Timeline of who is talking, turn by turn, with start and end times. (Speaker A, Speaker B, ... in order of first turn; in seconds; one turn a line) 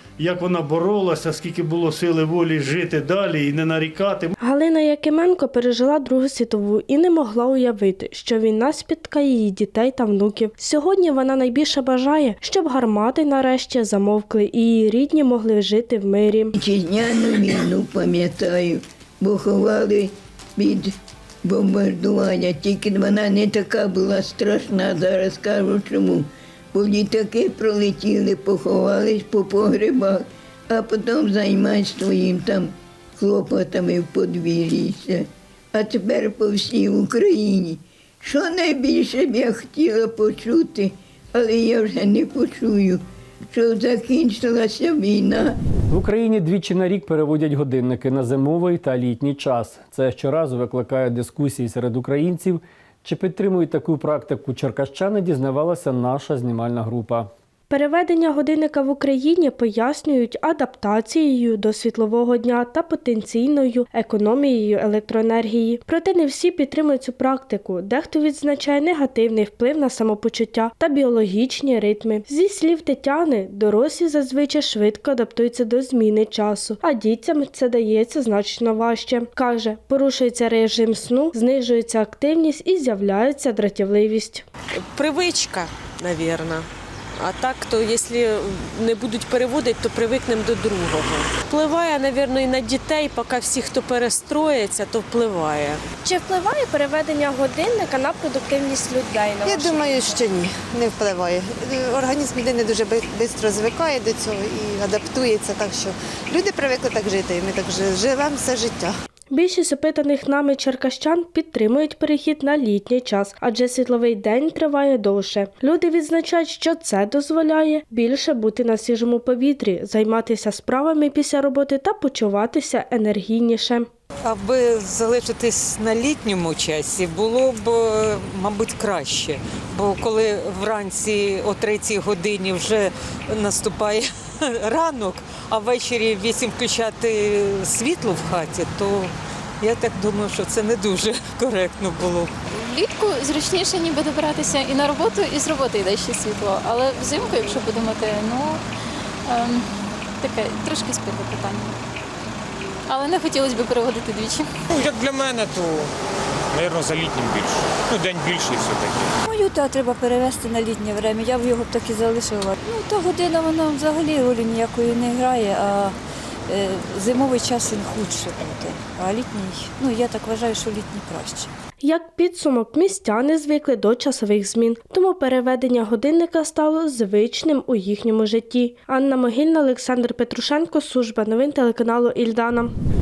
Speaker A: 0.2-4.3
Speaker B: 4.4-16.5
Speaker C: 16.5-20.9
Speaker C: 21.4-45.6
Speaker D: 45.9-57.3
Speaker B: 57.7-84.5
Speaker E: 84.8-95.8
Speaker B: 96.0-100.2
Speaker F: 99.4-109.0
Speaker B: 109.3-123.9
Speaker G: 124.2-134.1
Speaker G: 134.6-142.3
Speaker H: 142.5-148.6
Speaker H: 149.3-149.7
Speaker H: 150.2-151.8
Speaker H: 152.9-154.5
Speaker I: 154.7-155.9
Speaker I: 156.5-159.1
Speaker J: 159.2-165.9
Speaker J: 166.5-171.5
Speaker B: 171.8-182.7